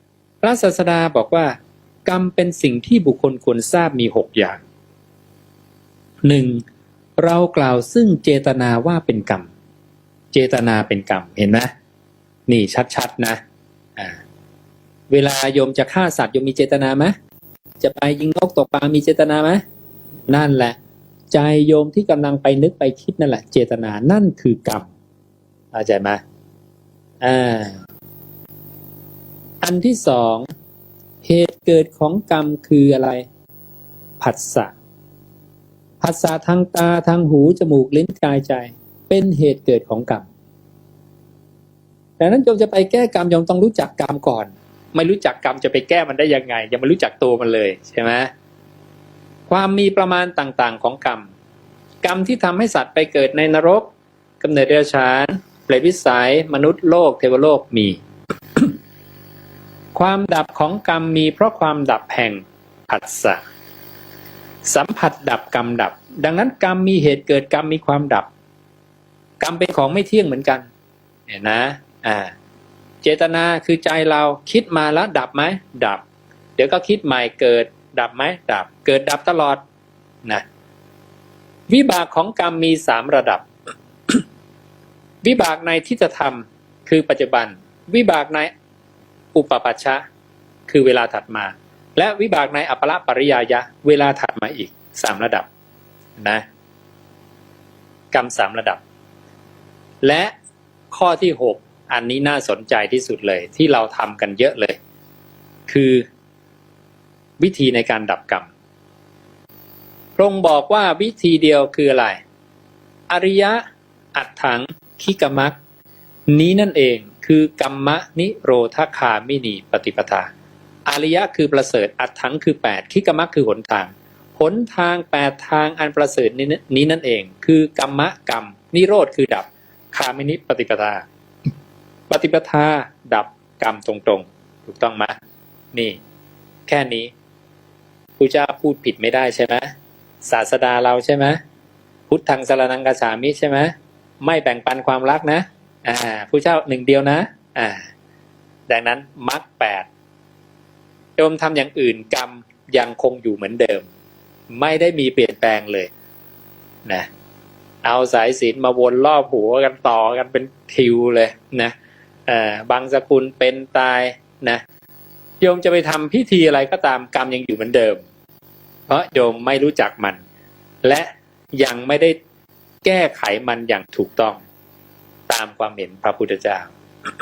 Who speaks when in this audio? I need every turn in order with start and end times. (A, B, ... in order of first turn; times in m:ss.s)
0:00.4-0:04.6 A
0:06.2-0:06.6 A
0:07.2-0:09.5 A
0:10.3-0:11.7 A
0:12.5-0:13.4 A
0:15.1-0:17.1 A
0:17.8-0:19.6 A
0:20.3-0:20.8 A
0:21.3-0:24.9 A
0:25.7-0:26.2 A
0:27.2-0:27.8 A
0:29.6-0:30.5 A
0:31.2-0:33.2 A
0:34.2-0:34.7 A
0:36.0-0:40.3 A
0:42.2-0:48.3 A
0:49.5-0:51.3 A
0:52.0-0:58.0 A
0:59.9-1:03.4 A
1:04.6-1:08.3 A
1:09.4-1:10.7 A
1:11.3-1:12.3 A
1:13.0-1:16.0 A
1:16.6-1:19.6 A
1:21.7-1:23.4 A
1:25.2-1:28.5 A
1:29.3-1:30.0 A
1:30.7-1:35.5 A
1:36.2-1:36.4 A
1:38.1-1:38.8 A
1:40.0-1:40.3 A
1:40.9-1:44.8 A
1:45.7-1:46.0 A
1:47.4-1:48.5 A
1:50.2-1:52.2 A
1:53.1-1:53.6 A
1:54.1-1:55.6 A
1:56.3-2:00.3 A
2:00.9-2:11.0 A
2:12.1-2:15.2 A
2:15.7-2:16.0 A
2:16.7-2:17.1 A
2:18.2-2:19.7 A
2:20.2-2:21.4 A
2:22.1-2:27.9 A
2:28.7-2:29.9 A
2:31.2-2:33.9 A
2:34.5-2:35.9 A
2:37.8-2:41.7 A
2:42.3-2:44.6 A
2:45.4-2:48.0 A
2:48.9-2:50.2 A
2:50.8-2:52.2 A
2:52.8-2:54.4 A
2:55.3-2:56.7 A